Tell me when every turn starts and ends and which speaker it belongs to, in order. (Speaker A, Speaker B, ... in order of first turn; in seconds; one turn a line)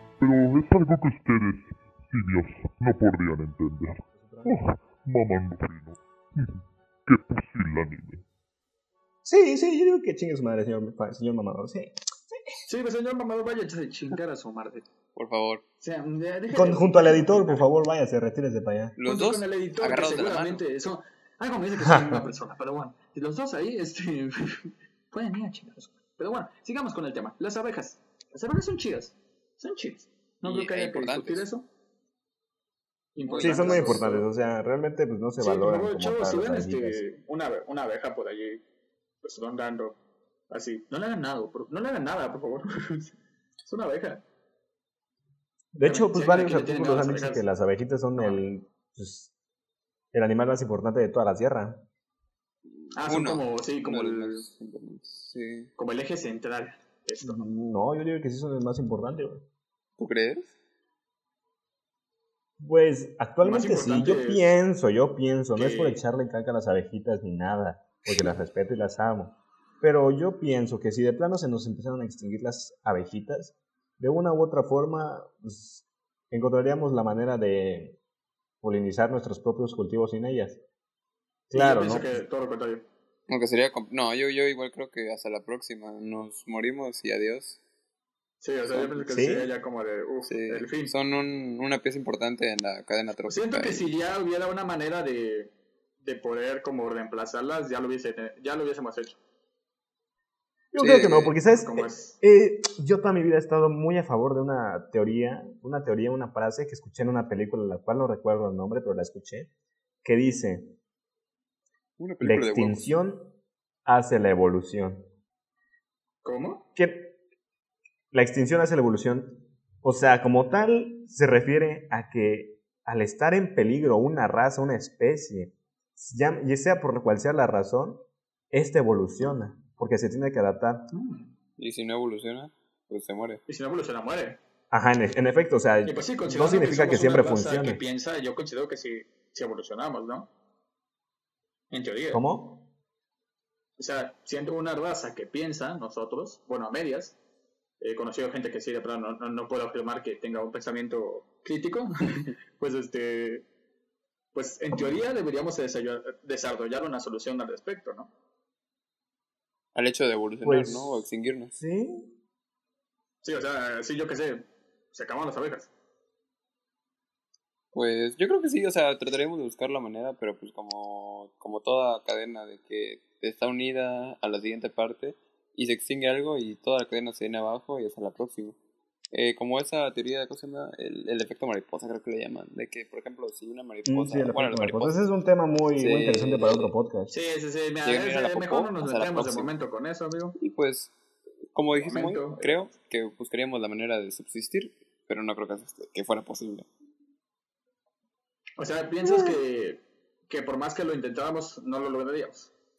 Speaker A: 0.2-8.2
Speaker B: 4.1-4.6
Speaker B: 9.2-12.6
Speaker C: 12.7-14.8
Speaker D: 15.2-15.6
Speaker C: 15.8-17.6
Speaker B: 16.5-19.0
Speaker D: 19.0-20.6
Speaker C: 19.1-31.7
Speaker B: 21.8-22.2
Speaker D: 30.4-31.4
Speaker C: 33.2-34.3
Speaker D: 33.3-34.1
Speaker B: 33.4-37.0
Speaker C: 35.4-38.6
Speaker C: 39.2-40.0
Speaker C: 40.5-44.2
Speaker B: 45.7-49.3
Speaker C: 45.8-47.5
Speaker B: 50.1-51.9
Speaker D: 52.8-55.7
Speaker C: 52.9-54.5
Speaker C: 55.8-57.5
Speaker B: 57.2-59.5
Speaker D: 60.0-60.5
Speaker B: 62.6-78.0
Speaker C: 63.4-64.5
Speaker C: 65.5-66.0
Speaker B: 78.6-80.6
Speaker B: 81.5-82.2
Speaker C: 81.5-82.9
Speaker D: 83.3-87.6
Speaker C: 88.4-90.9
Speaker B: 89.0-89.5
Speaker D: 90.3-93.9
Speaker C: 93.3-99.2
Speaker B: 100.7-109.5
Speaker D: 100.8-101.4
Speaker C: 101.5-102.2
Speaker B: 110.0-110.8
Speaker D: 112.0-112.8
Speaker B: 112.2-113.3
Speaker B: 113.9-115.0
Speaker C: 116.2-116.7
Speaker B: 116.8-117.2
Speaker B: 118.1-130.9
Speaker C: 130.9-131.3
Speaker D: 131.6-133.4
Speaker C: 133.5-134.4
Speaker B: 134.7-137.8
Speaker C: 135.8-140.3
Speaker C: 141.7-142.2
Speaker B: 142.1-142.7
Speaker C: 143.8-147.2
Speaker C: 147.8-153.5
Speaker C: 154.3-158.1
Speaker D: 159.8-161.5
Speaker B: 160.4-161.1
Speaker B: 161.6-162.2
Speaker C: 163.2-165.7
Speaker D: 167.7-178.6
Speaker D: 179.1-185.0
Speaker B: 183.9-187.1
Speaker D: 185.8-186.7
Speaker C: 187.1-190.4
Speaker D: 187.8-189.5
Speaker D: 190.4-190.9
Speaker D: 191.5-196.7
Speaker C: 191.8-192.6
Speaker C: 198.6-202.5
Speaker B: 199.1-199.4